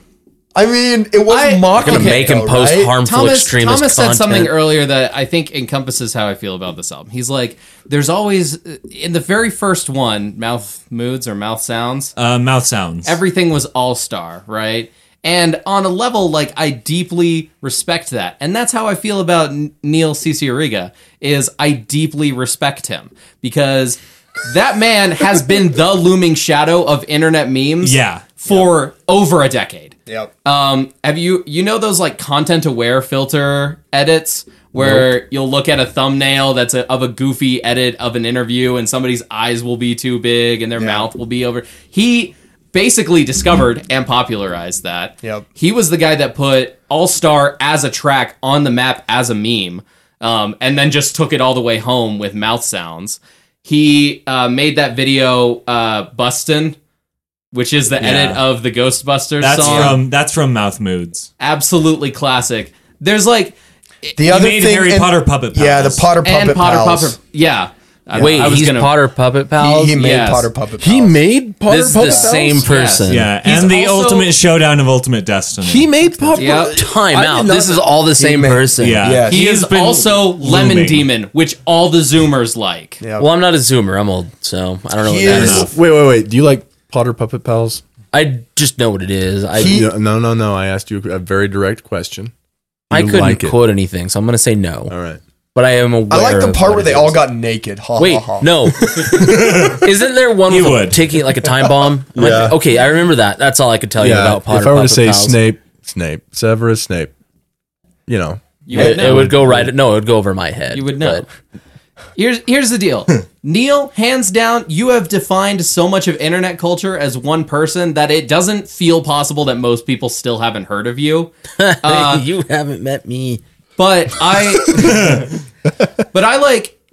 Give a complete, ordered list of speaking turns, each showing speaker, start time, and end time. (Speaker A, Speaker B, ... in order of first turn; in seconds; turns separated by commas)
Speaker A: 0.6-3.0, Speaker B: 1.3-2.4, Speaker C: 1.8-4.5, Speaker B: 3.0-12.1, Speaker D: 12.2-13.2, Speaker B: 13.1-56.8, Speaker D: 27.8-28.4, Speaker A: 40.8-41.1, Speaker B: 57.5-60.0, Speaker D: 58.0-58.4, Speaker D: 59.4-61.3, Speaker A: 59.6-59.9, Speaker B: 61.4-63.5, Speaker A: 64.2-67.2, Speaker D: 64.2-66.1, Speaker B: 66.2-69.0, Speaker A: 68.1-68.6, Speaker C: 68.2-70.0, Speaker A: 69.6-71.2, Speaker B: 69.9-70.5, Speaker E: 70.8-72.7, Speaker C: 71.7-73.3, Speaker B: 72.0-74.3, Speaker D: 73.1-75.9, Speaker E: 75.6-77.9, Speaker C: 76.2-79.1, Speaker B: 76.3-76.8, Speaker A: 78.2-79.4, Speaker D: 78.8-81.1, Speaker B: 79.3-83.0, Speaker A: 83.0-83.3, Speaker C: 83.2-85.7, Speaker A: 85.0-85.7, Speaker D: 85.3-85.7, Speaker E: 85.3-87.8, Speaker C: 88.1-89.8, Speaker A: 89.6-89.9, Speaker E: 89.6-92.3, Speaker C: 92.9-94.9, Speaker E: 92.9-93.6, Speaker E: 94.9-95.2, Speaker C: 95.5-97.2, Speaker A: 96.1-98.5, Speaker C: 98.0-105.4, Speaker D: 99.1-99.9, Speaker D: 100.5-101.0, Speaker E: 102.2-102.6, Speaker E: 104.0-107.1, Speaker E: 108.1-109.7, Speaker B: 108.7-109.4, Speaker C: 108.7-111.3, Speaker B: 110.7-111.3, Speaker B: 112.2-121.3, Speaker C: 121.6-123.4, Speaker B: 121.8-122.2, Speaker B: 123.8-125.3, Speaker B: 126.1-126.8